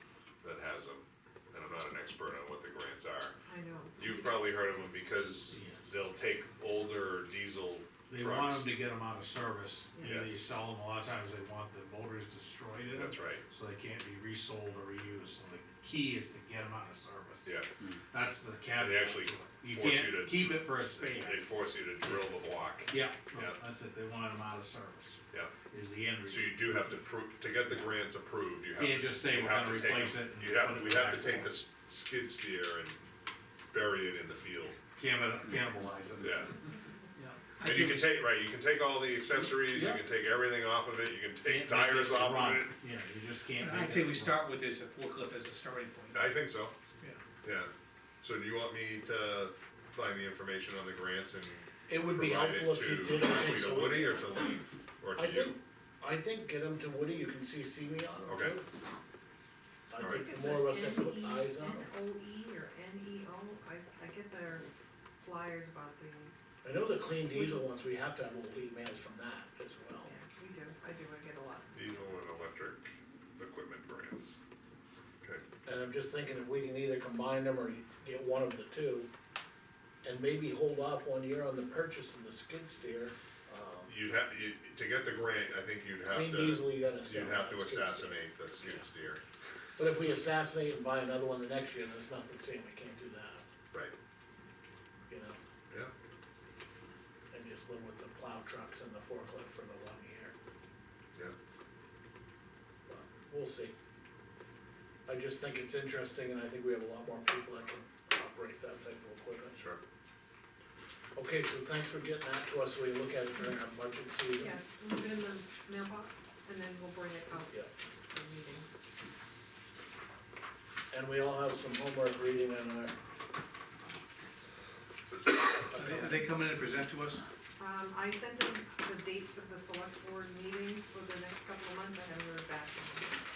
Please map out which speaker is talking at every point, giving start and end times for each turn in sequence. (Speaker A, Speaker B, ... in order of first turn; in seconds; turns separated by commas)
Speaker A: 0.4-3.4, Speaker B: 3.5-4.5, Speaker A: 4.0-8.7, Speaker C: 5.5-5.9, Speaker C: 8.1-17.6, Speaker A: 10.0-10.4, Speaker A: 12.9-13.4, Speaker A: 17.4-17.8, Speaker C: 18.1-21.5, Speaker A: 18.7-23.6, Speaker C: 22.9-26.8, Speaker A: 26.3-33.0, Speaker C: 28.8-31.6, Speaker A: 33.7-34.8, Speaker C: 34.9-36.5, Speaker A: 36.2-36.5, Speaker C: 37.2-38.0, Speaker D: 37.5-38.2, Speaker A: 37.6-42.8, Speaker C: 39.7-40.0, Speaker C: 41.4-44.5, Speaker D: 43.5-46.3, Speaker A: 46.1-46.8, Speaker A: 47.4-55.5, Speaker E: 51.9-54.4, Speaker E: 55.2-58.7, Speaker A: 58.3-58.6, Speaker E: 59.9-61.9, Speaker A: 60.0-60.2, Speaker B: 60.0-64.7, Speaker B: 65.2-66.3, Speaker E: 66.6-70.1, Speaker B: 67.2-67.6, Speaker B: 70.0-71.9, Speaker A: 71.7-74.4, Speaker E: 75.7-79.1, Speaker E: 80.0-83.9, Speaker A: 83.9-89.2, Speaker E: 86.1-88.8, Speaker E: 89.8-93.5, Speaker E: 95.1-95.4, Speaker E: 97.3-100.3, Speaker E: 102.9-103.7, Speaker E: 105.1-109.6, Speaker E: 111.2-114.6, Speaker B: 114.3-118.8, Speaker E: 120.9-123.0, Speaker D: 125.5-127.2, Speaker B: 127.6-133.2